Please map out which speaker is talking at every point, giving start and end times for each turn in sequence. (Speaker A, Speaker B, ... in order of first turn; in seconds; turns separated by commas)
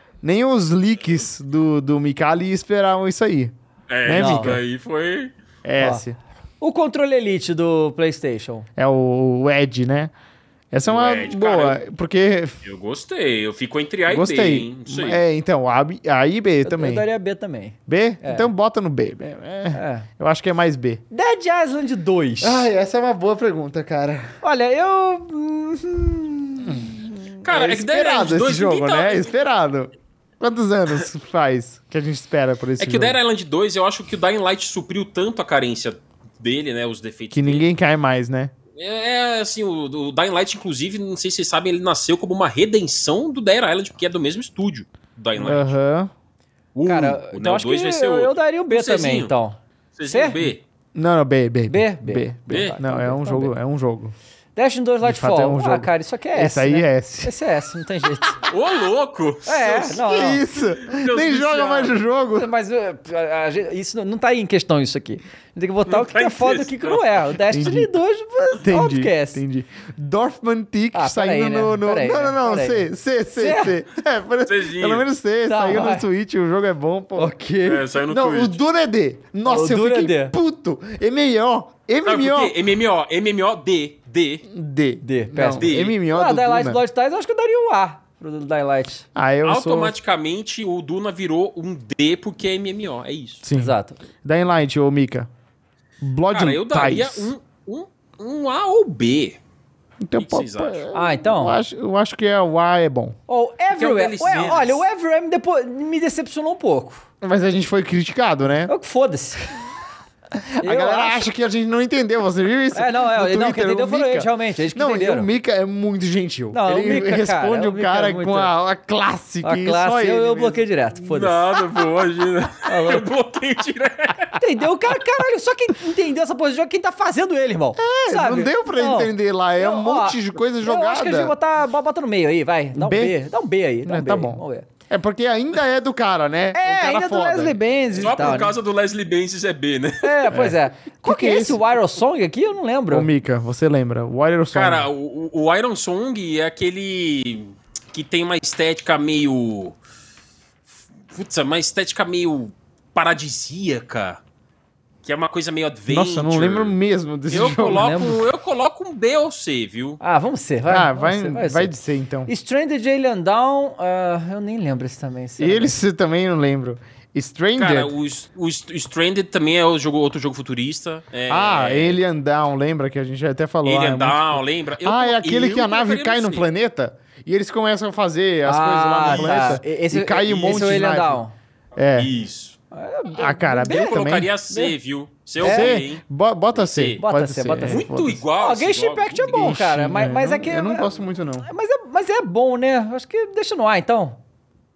Speaker A: 0.2-3.5, Speaker B: 3.9-5.3, Speaker A: 4.0-4.6, Speaker C: 4.1-4.5, Speaker A: 5.6-6.2, Speaker C: 6.6-8.7, Speaker A: 8.8-10.1, Speaker A: 10.7-12.6, Speaker B: 10.8-11.8, Speaker B: 12.6-15.2, Speaker A: 14.1-17.1, Speaker C: 16.6-18.5, Speaker A: 17.9-21.0, Speaker C: 19.7-20.1, Speaker C: 21.1-22.7, Speaker A: 22.4-24.3, Speaker C: 24.4-26.9, Speaker A: 26.6-33.2, Speaker B: 27.4-29.4, Speaker B: 32.8-37.7, Speaker A: 37.3-38.5, Speaker B: 38.8-45.8, Speaker A: 45.4-46.1, Speaker B: 46.7-49.3, Speaker C: 46.9-50.5, Speaker B: 50.0-50.6, Speaker A: 50.9-54.1, Speaker C: 51.7-53.5, Speaker B: 52.5-52.8, Speaker C: 54.5-58.4, Speaker A: 55.0-57.4, Speaker B: 58.4-60.0, Speaker C: 59.4-60.4, Speaker A: 60.0-62.5, Speaker B: 60.8-61.9, Speaker C: 62.3-69.4, Speaker B: 65.9-67.0, Speaker A: 67.5-67.9, Speaker A: 68.6-77.4, Speaker C: 70.9-73.8, Speaker B: 74.5-75.1, Speaker C: 75.5-76.1, Speaker C: 77.2-77.8, Speaker B: 77.6-78.6, Speaker A: 78.0-82.6, Speaker C: 79.5-80.3, Speaker B: 82.0-84.5, Speaker A: 84.5-86.8, Speaker C: 85.0-89.0, Speaker B: 85.6-86.0, Speaker A: 89.1-89.9, Speaker B: 89.4-93.4, Speaker A: 93.4-95.3, Speaker C: 93.5-94.0, Speaker A: 96.0-97.3, Speaker B: 96.3-99.4, Speaker A: 100.0-103.2, Speaker B: 100.2-100.8, Speaker C: 100.9-101.6, Speaker C: 103.3-107.0, Speaker B: 103.7-104.8, Speaker A: 107.2-108.7, Speaker C: 108.7-109.5, Speaker A: 110.4-120.6, Speaker C: 110.6-111.2, Speaker C: 112.7-115.3, Speaker C: 116.5-118.5, Speaker C: 119.4-121.6, Speaker B: 121.0-124.3, Speaker C: 122.7-123.1, Speaker C: 124.4-134.7, Speaker A: 127.8-131.3, Speaker A: 132.7-133.2, Speaker A: 133.8-137.6, Speaker C: 136.5-138.5, Speaker B: 137.9-140.3, Speaker C: 140.0-143.1, Speaker A: 140.3-141.6, Speaker A: 142.9-144.9, Speaker B: 144.5-149.8, Speaker B: 151.1-154.2, Speaker B: 155.0-156.8, Speaker A: 155.9-158.0, Speaker B: 157.3-160.0, Speaker C: 157.6-158.2, Speaker C: 160.0-165.7, Speaker A: 160.7-162.3, Speaker A: 165.4-167.9, Speaker B: 167.6-172.0, Speaker A: 171.3-181.2, Speaker B: 173.6-176.5, Speaker C: 178.4-181.3, Speaker B: 179.0-179.6, Speaker A: 181.8-182.1, Speaker B: 181.9-182.6, Speaker C: 182.7-184.7, Speaker A: 183.1-184.3, Speaker B: 183.7-187.0, Speaker A: 185.4-188.2, Speaker C: 185.4-185.8, Speaker C: 187.0-190.9, Speaker B: 187.7-189.5, Speaker A: 189.3-191.5, Speaker C: 191.4-194.2